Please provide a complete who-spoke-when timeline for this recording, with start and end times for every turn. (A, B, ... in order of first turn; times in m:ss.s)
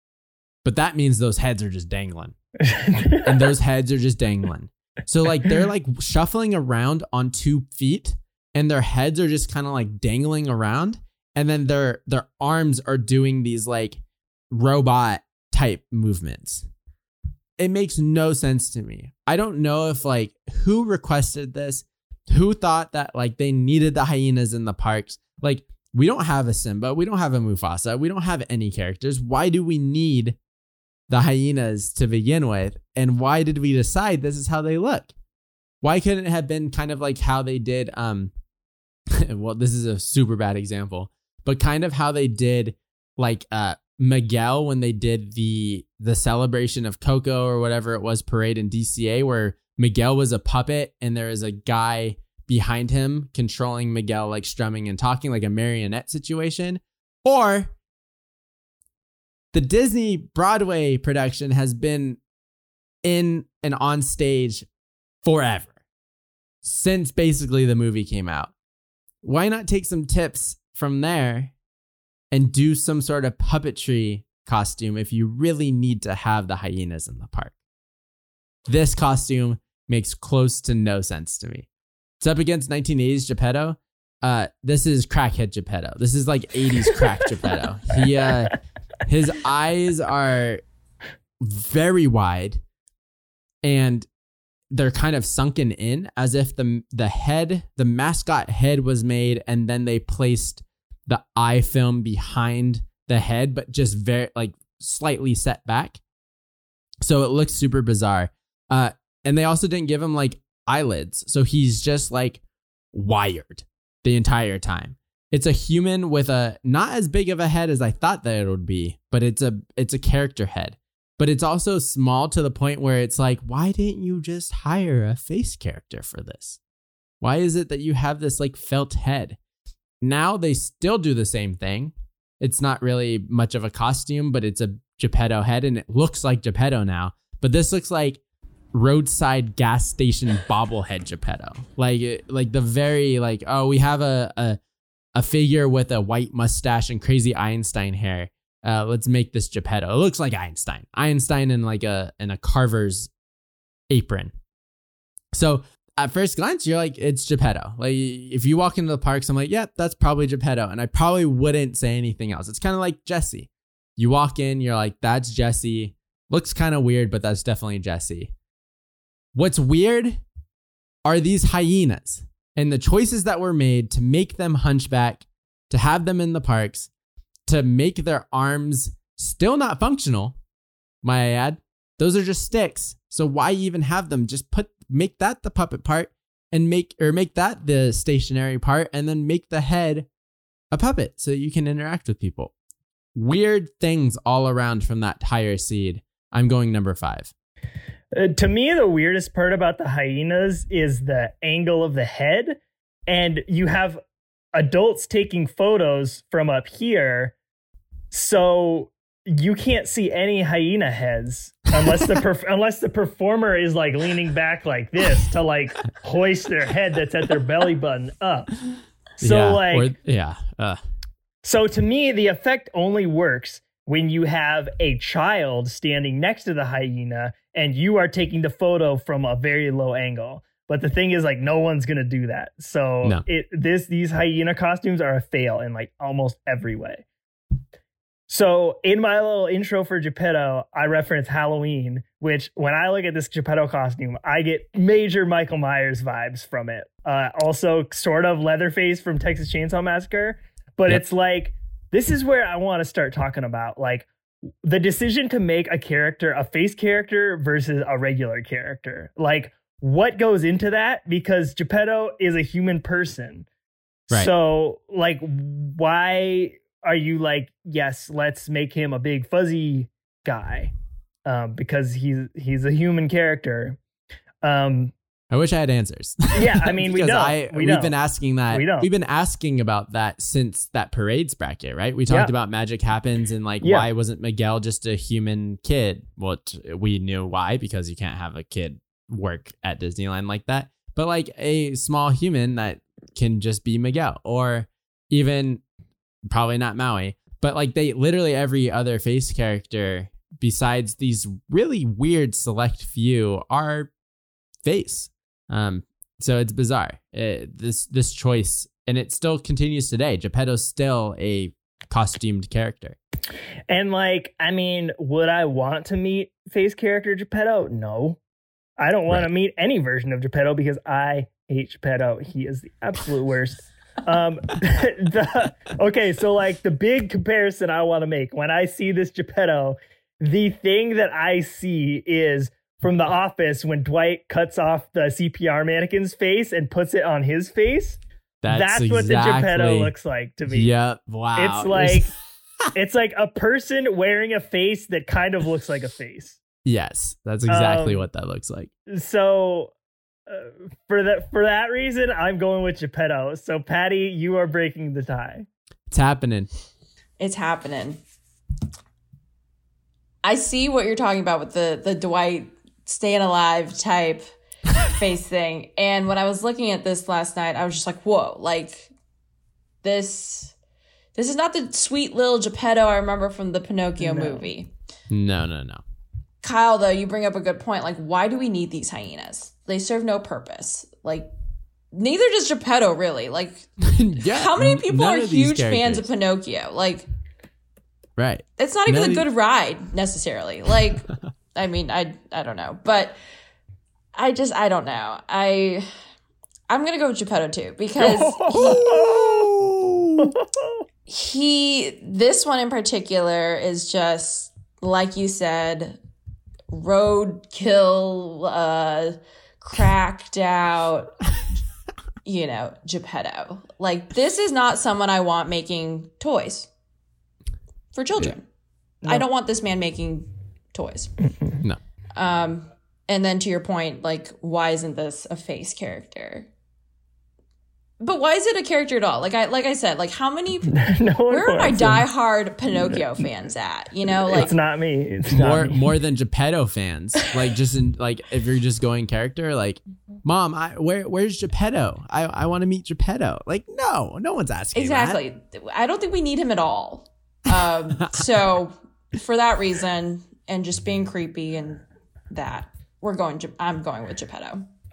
0:00.6-0:02.4 A
0:02.6-0:03.5 B
0:03.2-0:16.7 A
0:17.6-0:30.4 A
0:31.1-0:35.1 A
0:35.8-0:38.3 A
0:39.1-0:57.7 A
0:59.5-1:02.2 A
1:03.0-1:04.7 A
1:05.2-1:05.7 A
1:06.6-1:08.5 A
1:09.2-1:11.5 A
1:12.3-1:17.6 A
1:18.7-1:21.7 A
1:22.2-1:30.6 A
1:31.4-1:32.6 A
1:33.6-1:34.1 A
1:34.7-1:46.0 A
1:47.0-1:52.4 A
1:52.9-2:06.6 A
2:07.2-2:09.4 A
2:10.0-2:18.2 A
2:18.7-2:24.6 A
2:25.2-2:33.1 A
2:33.9-2:34.3 A
2:35.3-2:48.3 A
2:49.4-2:50.2 A
2:51.0-2:56.9 A
2:57.5-3:00.4 A
3:01.0-3:10.1 A
3:10.7-3:12.5 A
3:13.2-3:17.3 A
3:18.1-3:24.0 B
3:24.5-3:27.4 B
3:28.1-3:38.5 B
3:39.2-3:39.9 B
3:39.2-3:40.8 A
3:41.4-3:57.0 B
3:58.3-4:14.1 B
4:14.6-4:23.5 B
4:24.1-4:30.7 B
4:31.2-4:33.8 B
4:34.4-4:34.9 B
4:35.3-4:55.6 A
4:36.3-4:37.9 B
4:38.5-4:38.9 B
4:43.6-4:43.9 B
4:56.3-5:03.9 A
5:04.6-5:13.0 A
5:13.7-5:18.2 B
5:18.8-5:40.7 B
5:38.4-5:39.9 A
5:40.5-5:42.1 A
5:41.4-5:42.1 B
5:42.7-5:46.4 B
5:46.6-5:48.7 A
5:47.5-5:48.1 B
5:48.9-5:49.7 B
5:50.3-5:55.5 B
5:55.9-5:56.5 A
5:57.2-5:58.0 C
6:00.2-6:04.3 C
6:04.8-6:08.9 C
6:09.8-6:10.5 C
6:11.2-6:14.7 C
6:14.0-6:14.5 B
6:15.1-6:15.8 A
6:16.4-6:21.3 C
6:21.9-6:27.1 C
6:23.8-6:26.1 A
6:28.2-6:29.2 A
6:28.6-6:33.2 C
6:34.2-6:35.9 C
6:36.7-6:39.0 C
6:38.0-6:39.5 B
6:38.5-6:40.3 A
6:40.2-6:40.8 B
6:41.1-6:46.0 C
6:46.7-6:51.2 C
6:52.2-6:56.7 C
6:57.9-6:58.4 C
6:59.0-7:01.1 C
7:01.3-7:01.6 B
7:02.2-7:06.5 C
7:08.0-7:14.5 C
7:10.7-7:12.1 B
7:12.7-7:13.3 B
7:14.1-7:15.9 B
7:15.3-7:25.2 A
7:24.7-7:34.7 C